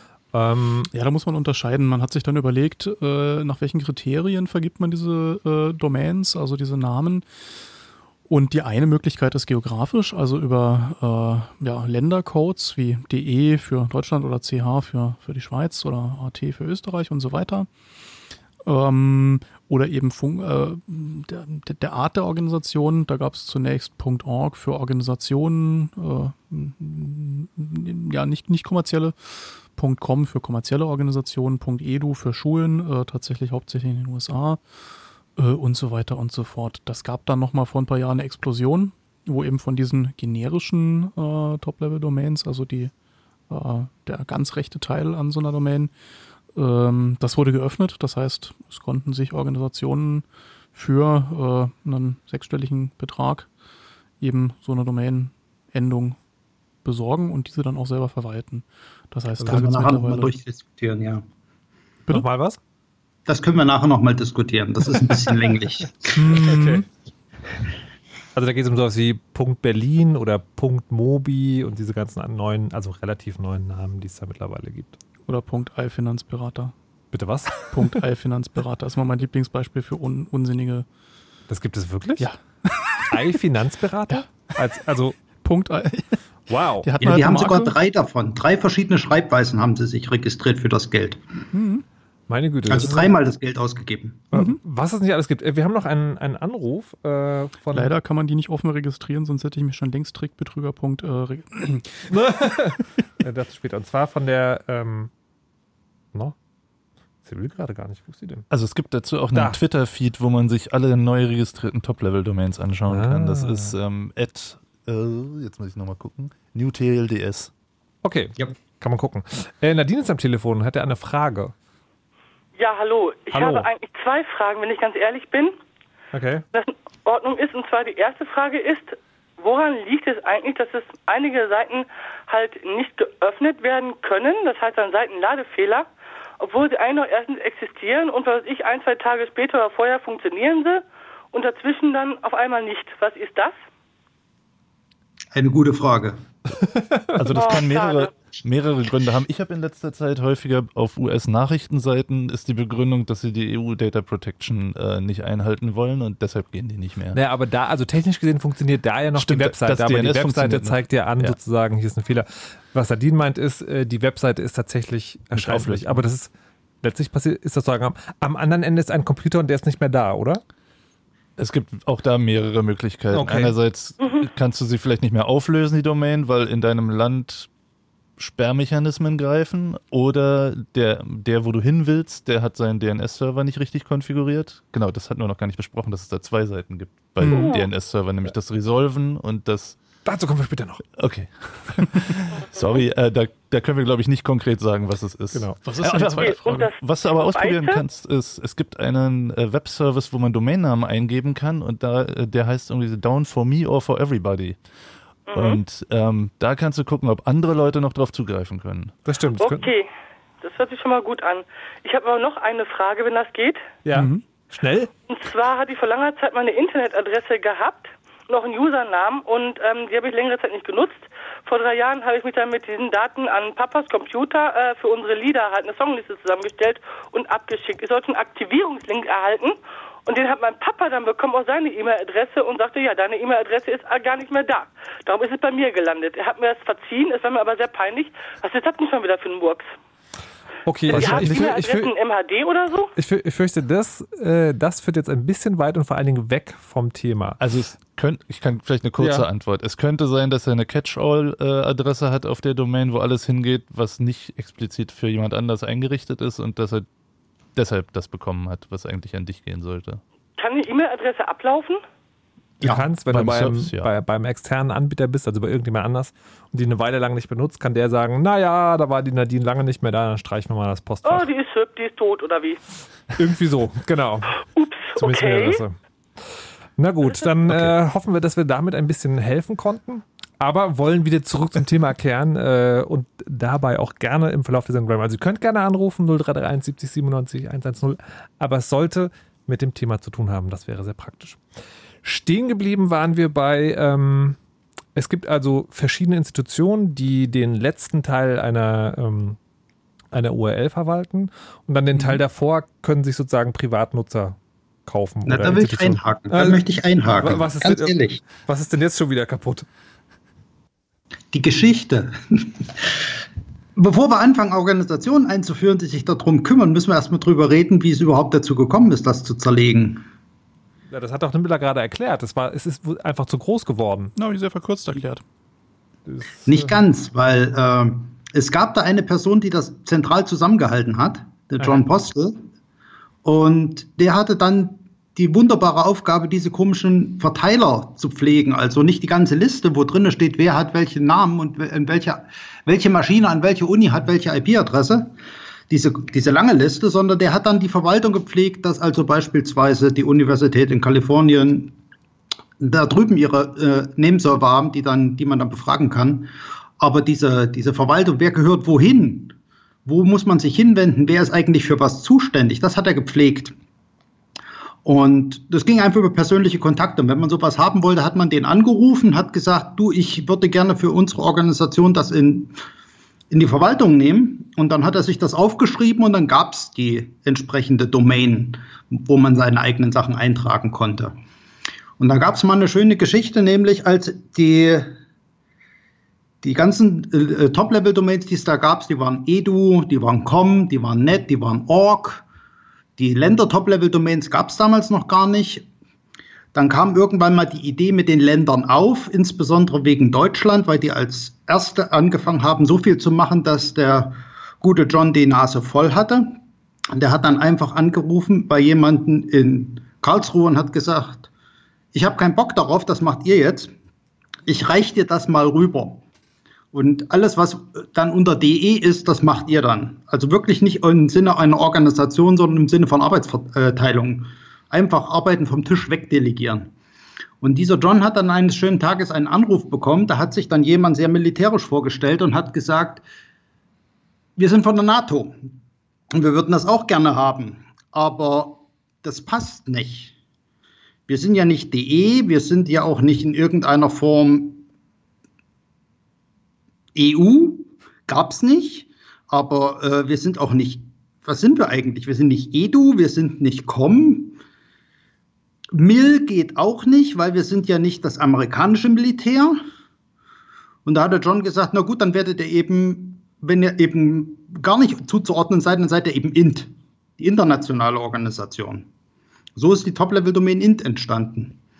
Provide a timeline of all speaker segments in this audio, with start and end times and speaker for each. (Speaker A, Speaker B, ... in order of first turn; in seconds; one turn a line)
Speaker A: 0.3-0.9
Speaker B: 0.9-7.2
Speaker B: 8.3-17.7
Speaker B: 18.6-34.6
Speaker B: 35.4-42.9
Speaker B: 43.5-45.9
Speaker B: 46.5-50.2
Speaker B: 50.8-53.5
Speaker B: 54.2-56.2
Speaker B: 56.9-60.3
Speaker A: 59.4-59.7
Speaker C: 59.5-61.2
Speaker A: 62.1-62.6
Speaker C: 63.3-66.2
Speaker B: 66.2-66.9
Speaker A: 66.4-66.8
Speaker A: 68.3-75.0
Speaker B: 75.3-76.7
Speaker A: 77.1-77.7
Speaker B: 77.7-80.9
Speaker A: 81.5-82.3
Speaker B: 82.2-83.1
Speaker A: 83.1-85.2
Speaker B: 84.1-84.5
Speaker B: 85.4-86.2
Speaker A: 86.5-86.9
Speaker B: 86.8-87.7
Speaker C: 87.0-91.2
Speaker B: 91.5-91.8
Speaker A: 92.3-93.1
Speaker C: 92.7-94.2
Speaker A: 94.3-97.9
Speaker B: 94.3-94.6
Speaker B: 97.7-102.2
Speaker A: 102.1-105.1
Speaker A: 107.3-108.5
Speaker D: 108.5-117.5
Speaker A: 109.3-109.6
Speaker A: 112.9-113.7
Speaker A: 118.0-121.5
Speaker E: 122.6-125.5
Speaker A: 123.3-123.7
Speaker A: 126.1-126.5
Speaker E: 126.5-135.9
Speaker E: 136.4-143.6
Speaker C: 145.3-146.2
Speaker A: 146.8-147.1
Speaker D: 147.2-157.2
Speaker E: 147.3-148.1
Speaker A: 157.1-166.3
Speaker D: 159.2-161.4
Speaker D: 165.3-166.0
Speaker A: 166.8-170.4
Speaker D: 171.4-177.5
Speaker A: 173.1-173.6
Speaker D: 178.2-189.8
Speaker B: 187.2-187.5
Speaker E: 187.3-187.7
Speaker A: 190.1-190.8
Speaker D: 191.0-204.6
Speaker A: 195.3-195.6
Speaker B: 195.7-196.7
Speaker E: 196.1-197.8
Speaker E: 205.3-205.6
Speaker D: 205.3-208.9
Speaker A: 209.1-209.7
Speaker E: 209.4-209.9
Speaker E: 210.4-213.6
Speaker A: 213.8-214.9
Speaker B: 213.9-214.2
Speaker E: 215.1-239.7
Speaker A: 240.7-241.9
Speaker E: 240.9-242.9
Speaker D: 240.9-241.5
Speaker A: 243.0-247.4
Speaker D: 247.4-256.9
Speaker A: 249.0-249.3
Speaker D: 257.6-260.0
Speaker E: 260.4-261.8
Speaker A: 262.6-271.3
Speaker D: 263.1-263.9
Speaker E: 271.1-272.6
Speaker A: 273.2-274.4
Speaker E: 274.6-275.6
Speaker A: 275.0-275.8
Speaker A: 276.8-291.4
Speaker A: 292.0-294.4
Speaker A: 295.0-299.4
Speaker A: 300.1-306.6
Speaker C: 305.3-308.2
Speaker A: 307.2-309.7
Speaker C: 311.3-312.7
Speaker C: 313.8-320.0
Speaker A: 320.9-324.1
Speaker B: 324.2-325.2
Speaker A: 326.1-326.8
Speaker C: 326.5-332.4
Speaker A: 331.6-331.9
Speaker C: 333.2-345.1
Speaker C: 345.7-351.8
Speaker C: 352.6-359.3
Speaker C: 359.9-363.5
Speaker C: 364.9-372.5
Speaker C: 373.3-381.2
Speaker C: 382.0-384.9
Speaker C: 386.4-392.2
Speaker C: 393.0-395.7
Speaker C: 396.5-406.4
Speaker C: 406.9-411.3
Speaker C: 411.9-413.7
Speaker C: 414.5-416.0
Speaker C: 416.7-426.7
Speaker C: 427.4-433.0
Speaker C: 434.4-435.4
Speaker C: 436.1-440.1
Speaker C: 441.1-444.6
Speaker C: 446.9-454.4
Speaker C: 455.7-459.6
Speaker C: 460.9-468.9
Speaker C: 469.6-471.6